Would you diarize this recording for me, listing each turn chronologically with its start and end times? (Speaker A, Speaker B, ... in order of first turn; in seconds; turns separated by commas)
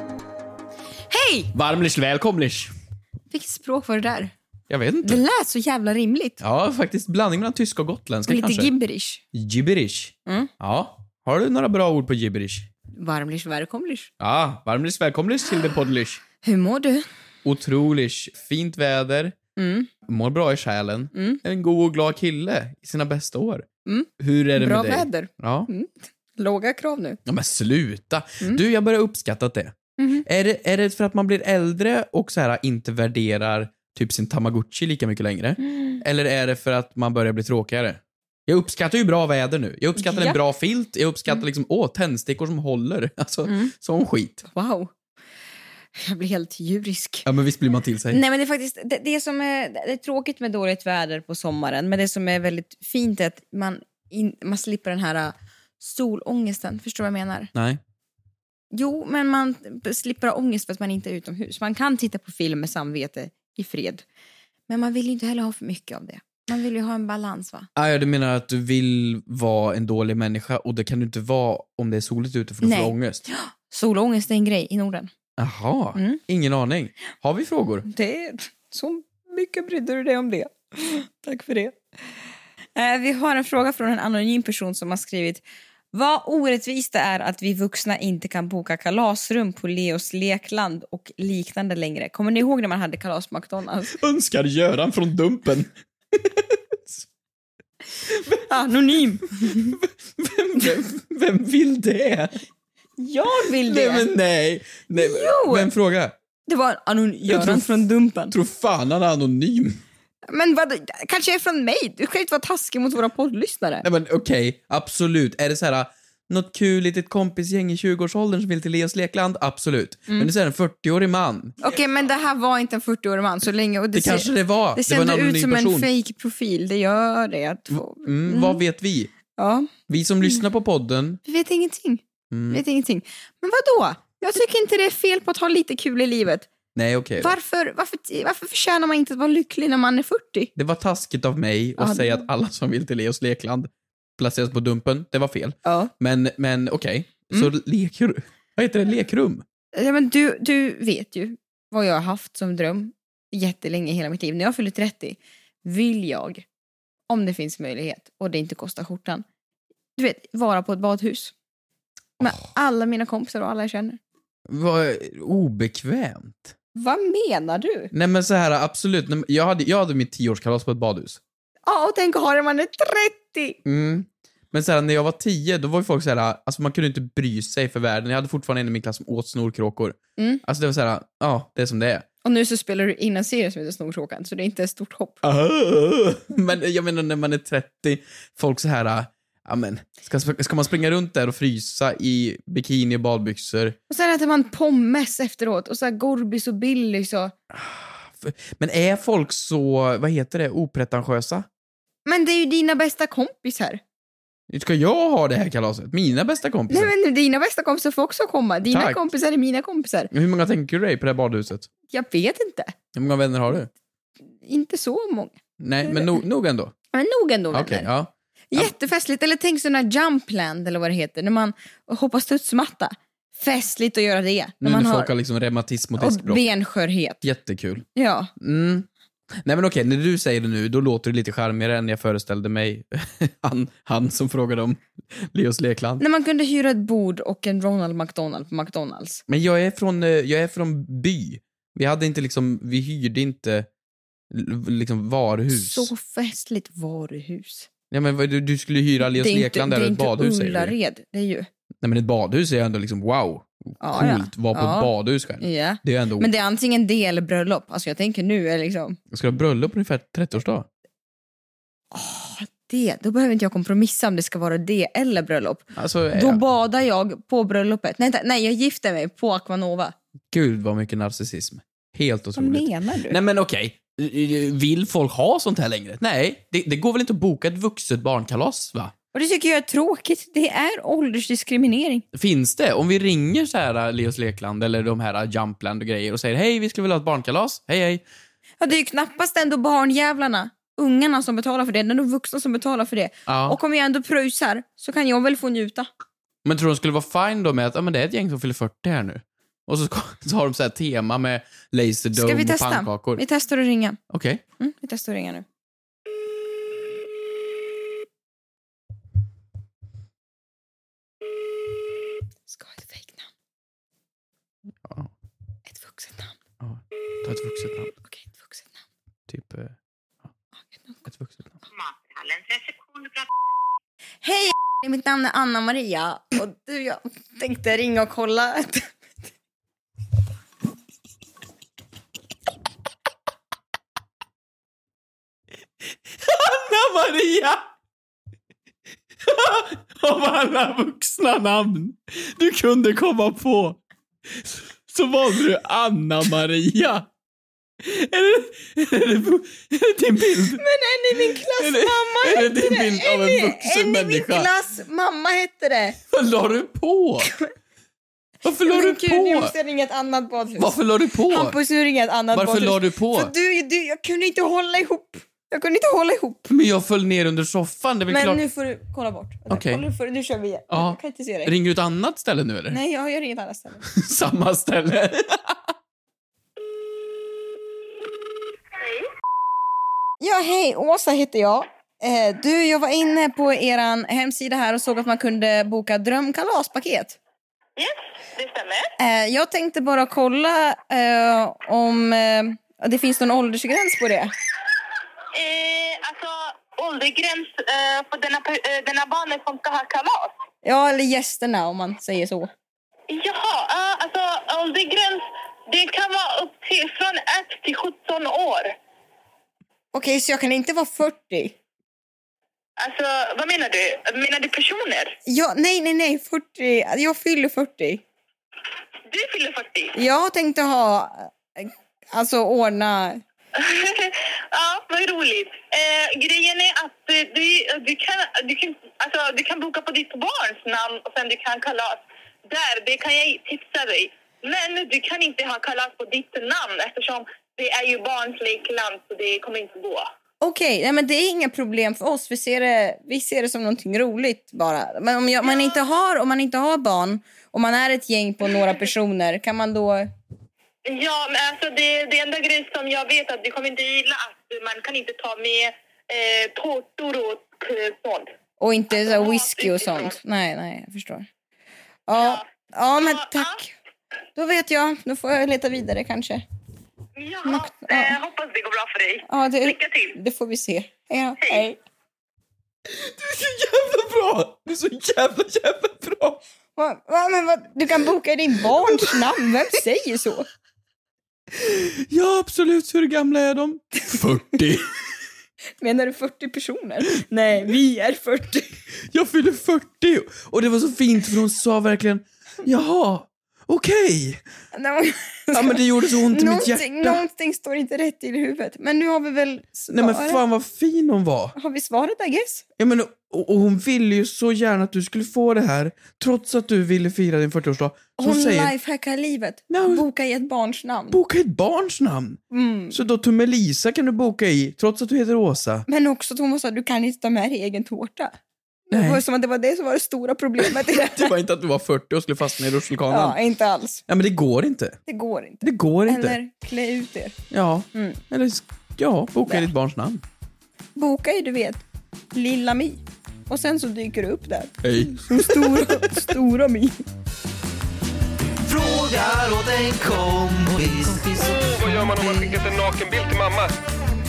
Speaker A: 1.1-1.5, Speaker B: 1.5-2.7, Speaker A: 3.3-4.3, Speaker B: 4.7-5.2, Speaker A: 5.0-6.4, Speaker B: 6.4-8.7, Speaker A: 8.3-9.2, Speaker B: 9.3-12.7, Speaker A: 13.0-14.1, Speaker B: 14.2-16.2, Speaker A: 16.4-17.1, Speaker B: 17.4-19.4, Speaker A: 19.6-19.9, Speaker B: 20.0-23.7, Speaker A: 21.1-21.4, Speaker A: 23.9-27.2, Speaker B: 24.2-25.7, Speaker B: 27.2-29.7, Speaker A: 30.0-30.2, Speaker B: 30.2-44.4, Speaker A: 35.7-36.0, Speaker A: 40.0-40.4, Speaker A: 43.5-43.7, Speaker A: 44.4-44.9, Speaker A: 46.0-47.2, Speaker B: 47.2-48.2, Speaker A: 48.1-57.5, Speaker B: 57.5-57.8, Speaker A: 58.7-64.0, Speaker A: 64.7-67.7, Speaker B: 67.7-73.2, Speaker A: 72.6-75.1, Speaker B: 75.4-77.8, Speaker A: 77.8-81.8, Speaker A: 82.8-94.0, Speaker B: 93.9-97.0, Speaker B: 98.1-98.5, Speaker A: 98.5-99.8, Speaker B: 99.4-102.3, Speaker A: 103.0-104.1, Speaker B: 103.4-106.1, Speaker A: 104.9-105.7, Speaker A: 106.5-108.3, Speaker B: 107.3-109.8, Speaker A: 110.3-113.9, Speaker B: 113.8-121.6, Speaker A: 121.6-128.6, Speaker B: 123.9-125.9, Speaker B: 127.7-129.1, Speaker A: 129.3-129.7, Speaker B: 129.9-131.2, Speaker A: 131.2-136.5, Speaker B: 132.3-132.6, Speaker B: 136.7-137.4, Speaker A: 137.2-140.5, Speaker B: 140.6-149.4, Speaker A: 141.8-142.2, Speaker A: 145.6-145.9, Speaker A: 149.7-156.4, Speaker A: 157.1-159.2, Speaker A: 160.0-161.3, Speaker A: 162.2-164.0, Speaker B: 164.5-166.5, Speaker A: 166.7-167.9, Speaker B: 167.9-171.2, Speaker A: 171.7-173.6, Speaker B: 173.6-182.1, Speaker A: 180.2-180.4, Speaker A: 182.2-185.2, Speaker B: 185.2-193.8, Speaker A: 193.9-197.3, Speaker B: 197.5-201.5, Speaker A: 202.1-203.8, Speaker B: 204.5-206.9, Speaker A: 206.7-210.1, Speaker B: 208.7-209.0, Speaker B: 210.1-211.7, Speaker A: 211.9-212.7, Speaker B: 212.9-213.7, Speaker A: 214.4-216.2, Speaker B: 215.6-216.7, Speaker A: 216.9-217.9, Speaker B: 217.5-218.7, Speaker A: 218.5-225.1, Speaker B: 224.6-226.4, Speaker A: 226.0-227.2, Speaker B: 227.2-227.8, Speaker A: 227.9-228.3, Speaker B: 228.4-228.9, Speaker B: 229.4-236.0, Speaker A: 236.0-239.2, Speaker B: 239.3-243.7, Speaker B: 244.3-245.9, Speaker A: 245.5-247.7, Speaker B: 247.9-250.7, Speaker A: 249.1-251.5, Speaker B: 251.8-256.3, Speaker A: 253.8-259.0, Speaker B: 259.1-260.7, Speaker A: 261.9-269.9, Speaker B: 265.7-266.4, Speaker B: 270.3-278.9, Speaker A: 272.3-273.2, Speaker A: 279.1-282.0, Speaker B: 282.1-288.0, Speaker A: 288.6-295.9, Speaker B: 293.3-293.6, Speaker B: 296.4-303.2, Speaker A: 302.1-304.0, Speaker B: 304.1-304.4, Speaker A: 304.6-305.4, Speaker A: 312.5-313.3, Speaker B: 314.8-315.1, Speaker A: 315.7-316.4, Speaker B: 316.6-317.9, Speaker A: 318.1-318.8, Speaker B: 319.3-319.8, Speaker B: 321.1-321.6, Speaker A: 324.2-328.9, Speaker B: 336.1-337.6, Speaker B: 339.2-343.8, Speaker B: 344.3-347.1, Speaker B: 347.8-350.6, Speaker A: 350.6-356.0, Speaker B: 351.1-354.5, Speaker B: 356.1-357.3, Speaker B: 358.4-359.5, Speaker A: 358.6-360.8, Speaker B: 360.6-361.6, Speaker A: 361.3-366.5, Speaker B: 362.3-363.3, Speaker B: 366.5-368.4, Speaker A: 368.1-371.5, Speaker B: 369.5-369.8, Speaker B: 370.7-372.8, Speaker A: 372.7-373.8, Speaker B: 373.9-375.7, Speaker A: 380.2-387.2, Speaker C: 387.8-388.9, Speaker A: 389.0-394.3, Speaker C: 395.3-400.3, Speaker A: 400.6-402.5, Speaker C: 403.1-408.7, Speaker A: 409.9-411.6, Speaker C: 412.8-415.2, Speaker A: 415.3-418.0, Speaker C: 419.1-419.9, Speaker A: 419.9-423.2, Speaker C: 423.6-440.1, Speaker A: 440.4-450.1, Speaker C: 450.9-458.3, Speaker A: 458.6-461.2, Speaker C: 458.9-460.1, Speaker A: 462.1-463.7, Speaker C: 462.1-462.4, Speaker C: 463.0-463.4, Speaker A: 464.3-466.4, Speaker C: 467.2-470.1, Speaker A: 467.4-468.2, Speaker A: 469.2-471.8, Speaker B: 472.9-476.4, Speaker A: 476.8-480.5, Speaker B: 478.7-479.2, Speaker B: 481.5-484.9, Speaker A: 485.8-488.8, Speaker B: 489.0-494.4, Speaker A: 494.7-500.4, Speaker B: 495.5-497.2, Speaker B: 499.9-501.5, Speaker A: 501.6-502.6, Speaker B: 502.8-508.7, Speaker A: 508.2-511.2, Speaker B: 509.7-510.1, Speaker B: 511.1-515.9, Speaker A: 512.5-513.0, Speaker A: 515.9-518.3, Speaker A: 518.9-521.3, Speaker B: 518.9-519.2, Speaker B: 520.6-523.4, Speaker A: 523.1-524.0, Speaker B: 524.1-525.0, Speaker A: 525.1-527.4, Speaker B: 525.6-526.4, Speaker B: 527.5-530.2, Speaker A: 527.9-528.2, Speaker A: 529.4-529.7, Speaker A: 531.0-531.8, Speaker A: 532.3-537.0, Speaker B: 534.8-536.3, Speaker D: 538.6-542.6, Speaker E: 541.4-543.7